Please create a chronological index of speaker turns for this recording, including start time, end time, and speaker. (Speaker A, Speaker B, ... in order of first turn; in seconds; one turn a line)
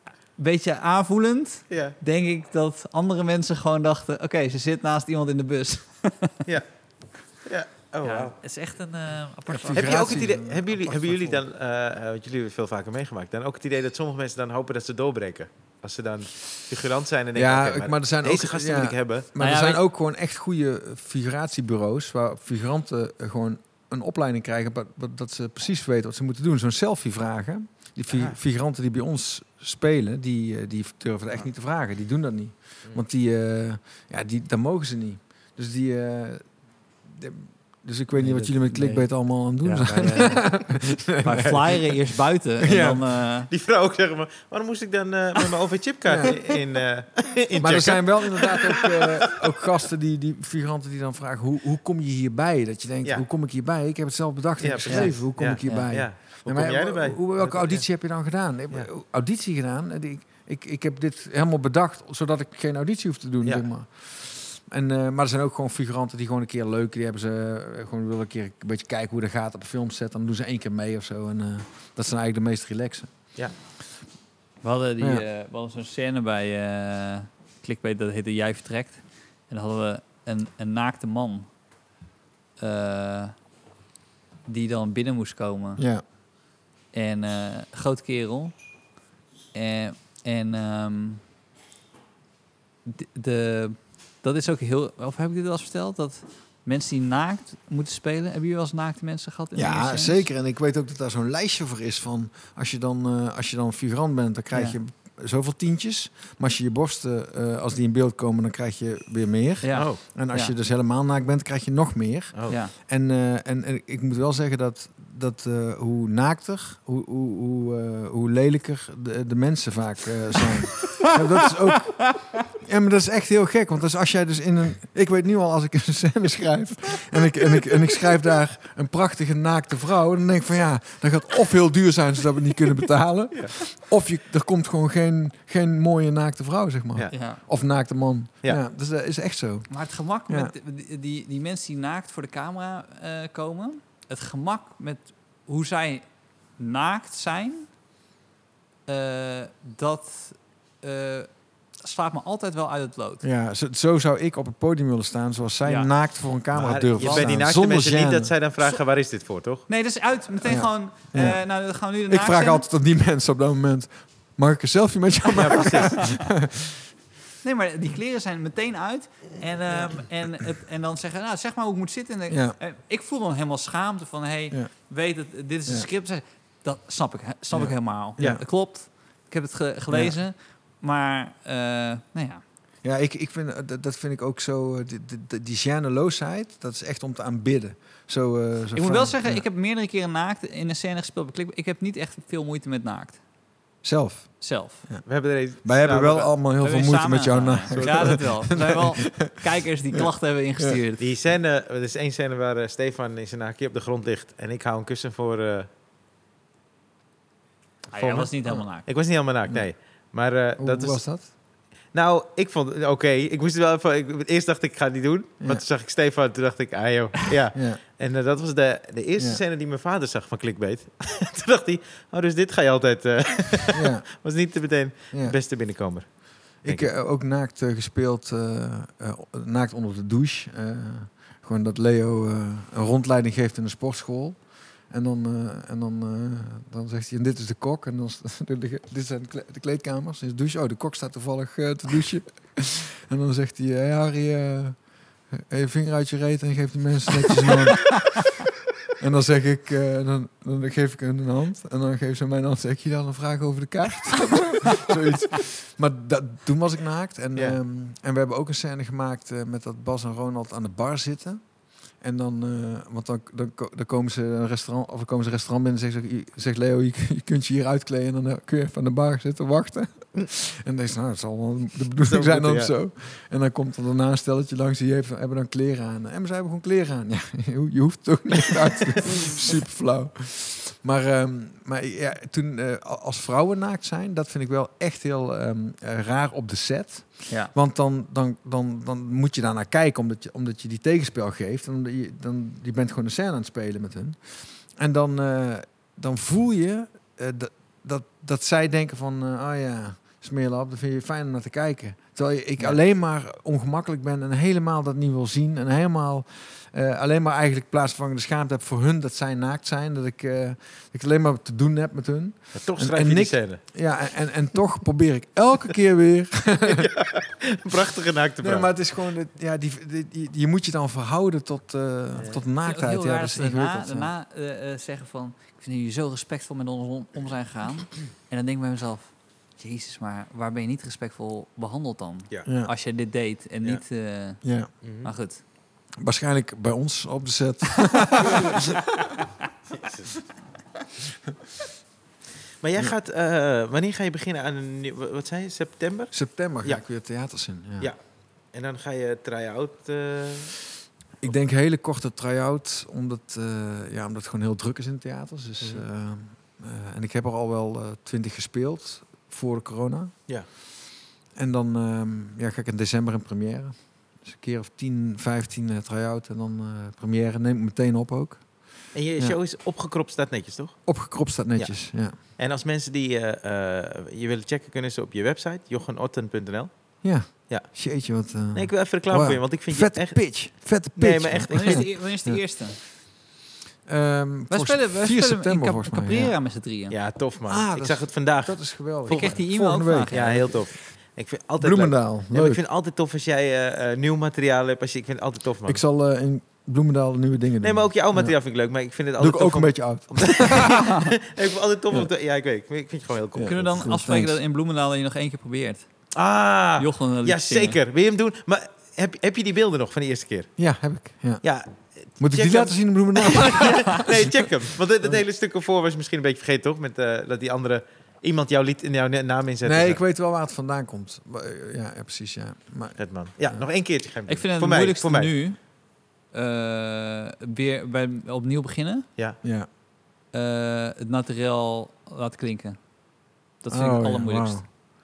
Speaker A: 0.4-6.4
Speaker B: 1.7-2.0
Speaker B: 6.5-8.3
Speaker A: 8.0-10.3
Speaker C: 9.5-11.4
Speaker B: 9.7-19.3
Speaker C: 17.4-42.1
Speaker A: 19.4-19.8
Speaker B: 28.1-28.4
Speaker A: 38.1-43.5
Speaker C: 42.6-43.0
Speaker B: 43.5-49.4
Speaker C: 46.1-46.4
Speaker C: 47.6-73.4
Speaker B: 54.6-58.1
Speaker A: 54.9-55.9
Speaker A: 74.6-81.6
Speaker C: 75.0-75.3
Speaker A: 82.6-83.4
Speaker A: 84.5-85.8
Speaker C: 85.8-86.0
Speaker A: 86.9-88.7
Speaker A: 89.5-91.2
Speaker A: 92.8-100.3
Speaker C: 99.5-140.5
Speaker A: 104.5-104.8
Speaker A: 109.6-110.6
Speaker B: 109.7-110.0
Speaker A: 121.7-122.2
Speaker A: 137.1-137.4
Speaker A: 139.7-147.7
Speaker A: 148.9-153.2
Speaker C: 153.2-158.3
Speaker A: 155.6-155.9
Speaker B: 156.5-159.7
Speaker A: 157.0-157.3
Speaker A: 159.7-162.7
Speaker C: 160.4-166.8
Speaker B: 165.4-166.2
Speaker A: 165.7-166.2
Speaker A: 167.4-182.4
Speaker C: 172.3-172.6
Speaker C: 177.5-178.4
Speaker C: 179.9-180.2
Speaker C: 182.8-189.4
Speaker A: 188.7-193.2
Speaker C: 193.8-200.1
Speaker A: 194.4-194.8
Speaker B: 195.1-196.4
Speaker A: 196.6-201.0
Speaker B: 197.7-198.2
Speaker B: 201.0-205.7
Speaker A: 207.9-208.9
Speaker B: 208.0-208.3
Speaker C: 208.1-208.9
Speaker B: 208.8-211.4
Speaker C: 210.6-211.3
Speaker B: 211.9-226.9
Speaker C: 217.5-217.8
Speaker C: 219.2-219.4
Speaker C: 223.7-224.1
Speaker C: 225.1-225.4
Speaker C: 226.6-248.3
Speaker C: 249.0-316.9
Speaker B: 272.0-272.7
Speaker B: 312.5-313.6
Speaker B: 316.8-318.7
Speaker C: 318.4-324.1
Speaker B: 322.1-322.4
Speaker A: 322.6-335.4
Speaker C: 332.5-332.7
Speaker C: 334.4-334.7
Speaker B: 334.8-335.1
Speaker C: 336.0-338.7
Speaker B: 339.7-340.3
Speaker B: 342.6-347.2
Speaker C: 346.1-347.9
Speaker B: 347.8-350.7
Speaker C: 351.2-360.5
Speaker C: 361.3-369.4
Speaker B: 368.9-382.0
Speaker C: 370.9-372.2
Speaker C: 377.0-382.4
Speaker A: 381.5-382.8
Speaker C: 383.9-386.4
Speaker A: 384.5-386.9
Speaker B: 386.9-389.4
Speaker C: 387.5-390.8
Speaker A: 389.1-390.2
Speaker B: 390.1-395.8
Speaker C: 391.6-392.6
Speaker C: 395.7-398.4
Speaker B: 397.6-403.8
Speaker C: 399.2-400.9
Speaker C: 403.3-404.4
Speaker A: 403.4-406.1
Speaker B: 406.1-410.6
Speaker A: 406.8-407.8
Speaker C: 410.6-411.6
Speaker B: 411.4-420.0
Speaker C: 412.2-414.5
Speaker C: 419.6-423.6
Speaker B: 423.0-425.4
Speaker A: 424.3-429.1
Speaker C: 429.4-429.7
Speaker A: 430.3-432.9
Speaker A: 433.6-434.6
Speaker C: 433.7-434.7